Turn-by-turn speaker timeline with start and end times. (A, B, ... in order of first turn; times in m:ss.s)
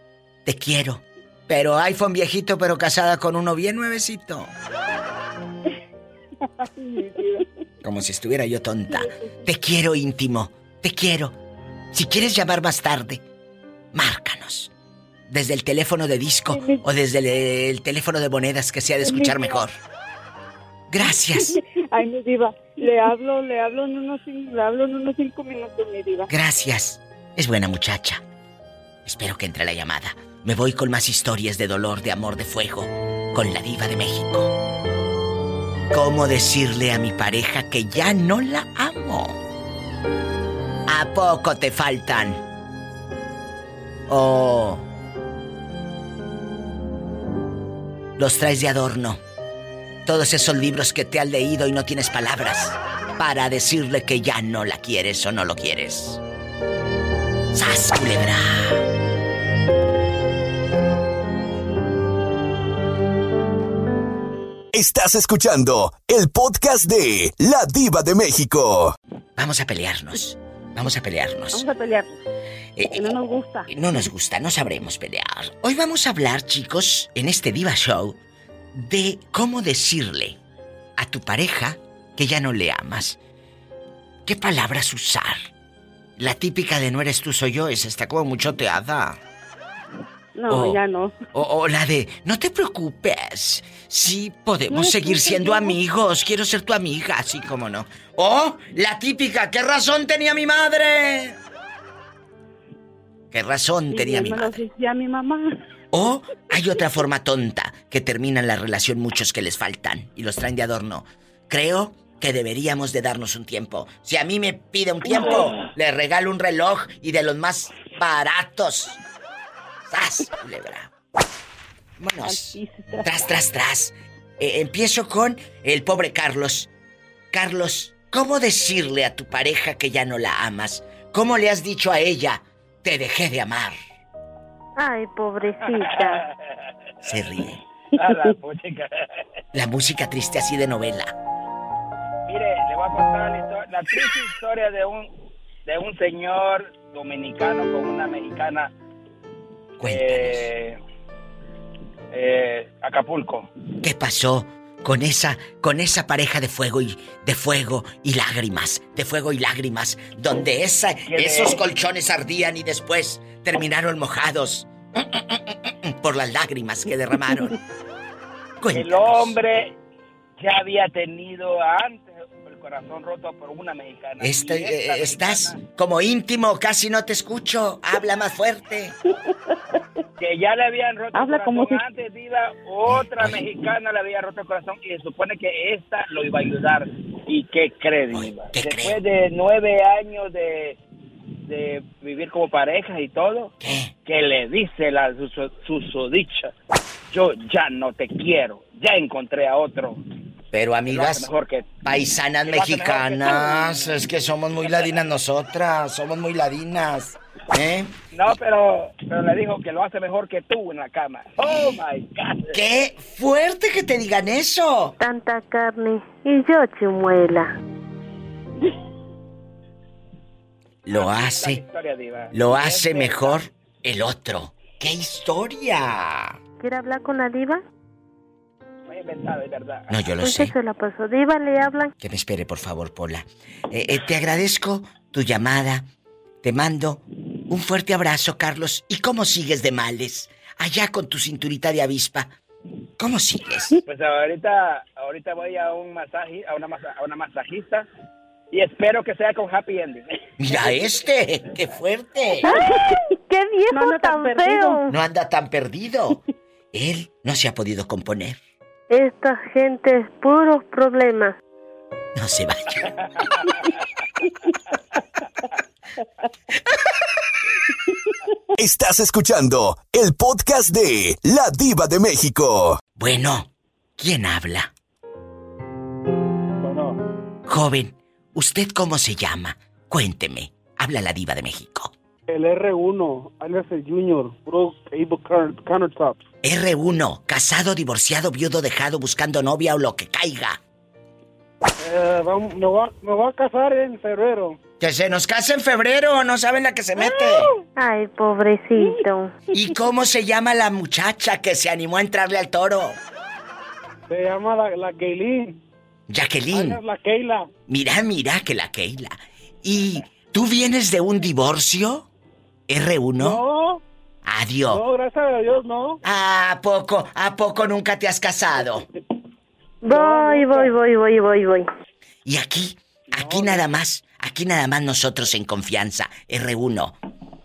0:00.4-0:04.5 A
0:06.6-0:07.4 B
0:07.8-0:11.4 A
0:08.9-0:09.5 B
0:11.9-0:13.2 A
0:13.9-0:14.7 A
0:15.3-0:19.7 A
0:16.5-0:16.9 B
0:19.0-0:19.6 B
0:20.9-0:21.5 A
0:21.9-0:26.3 B
0:26.3-0:28.2 A
0:29.0-0:34.5 A
0:35.9-0:39.4 A
0:40.9-0:42.4 A
0:44.1-0:44.8 A
0:48.2-0:49.2 A
0:50.0-0:56.2 A
0:57.5-0:58.8 A
1:04.7-1:09.0 C
1:09.4-1:11.7 A
1:11.5-1:12.1 D
1:12.8-1:13.1 A
1:12.8-1:13.7 D
1:13.7-1:18.2 A
1:18.7-1:20.4 A
1:21.0-1:23.2 A
1:24.2-1:25.5 A
1:26.2-1:29.2 A
1:30.3-1:31.1 D
1:30.5-1:41.4 A
1:34.7-1:35.8 D
1:43.3-1:44.6 A
1:43.9-1:45.6 D
1:45.9-1:59.0 A
1:55.0-1:55.7 D
1:59.8-2:00.9 A
2:02.0-2:06.7 A
2:02.2-2:03.3 D
2:07.3-2:13.8 A
2:14.8-2:16.2 E
2:15.7-2:16.1 F
2:17.0-2:17.6 A
2:18.0-2:18.9 F
2:19.5-2:21.1 A
2:22.2-2:25.1 F
2:25.6-2:28.7 F
2:29.8-2:30.5 A
2:29.8-2:30.8 F
2:32.1-2:33.5 F
2:33.8-2:47.5 A
2:41.1-2:41.6 F
2:48.6-2:49.4 A
2:48.7-2:49.8 F
2:50.4-2:55.6 F
2:54.2-2:59.0 A
3:00.2-3:10.8 F
3:01.1-3:01.8 D
3:02.9-3:03.4 A
3:08.1-3:09.0 A
3:11.5-3:16.5 F
3:13.6-3:13.9 A
3:17.1-3:20.0 F
3:20.5-3:21.3 A
3:20.9-3:21.7 F
3:21.8-3:27.9 A
3:22.4-3:24.0 F
3:24.6-3:25.0 F
3:28.1-3:32.6 F
3:32.5-3:34.9 A
3:35.0-3:37.5 E
3:40.8-3:41.6 A
3:40.9-3:43.4 F
3:42.3-3:46.4 A
3:46.6-3:47.6 E
3:48.9-3:50.1 F
3:49.9-3:50.5 A
3:50.2-3:51.9 E
3:52.0-3:55.9 A
3:56.4-4:02.3 A
4:03.0-4:03.8 A
4:03.8-4:07.8 F
4:08.5-4:10.2 F
4:10.4-4:12.5 A
4:12.4-4:12.7 D
4:13.2-4:14.9 E
4:13.7-4:14.8 D
4:14.9-4:16.2 A
4:16.7-4:18.4 A
4:18.9-4:21.3 E
4:22.2-4:23.0 A
4:28.6-4:32.8 C
4:33.0-4:34.7 A
4:36.6-4:37.0 G
4:37.4-4:41.9 A
4:42.3-4:46.2 G
4:46.4-4:50.6 A
4:51.8-4:54.5 G
4:54.8-4:57.5 A
4:57.8-4:59.4 E
4:59.5-5:03.0 A
5:04.1-5:05.5 G
5:06.1-5:06.8 A
5:06.5-5:07.4 G
5:07.7-5:12.1 A
5:12.7-5:13.4 A
5:13.2-5:13.8 G
5:14.2-5:14.8 A
5:14.8-5:15.9 G
5:16.0-5:18.8 A
5:19.8-5:21.7 E
5:20.1-5:20.6 G
5:22.2-5:27.0 A
5:23.2-5:23.6 G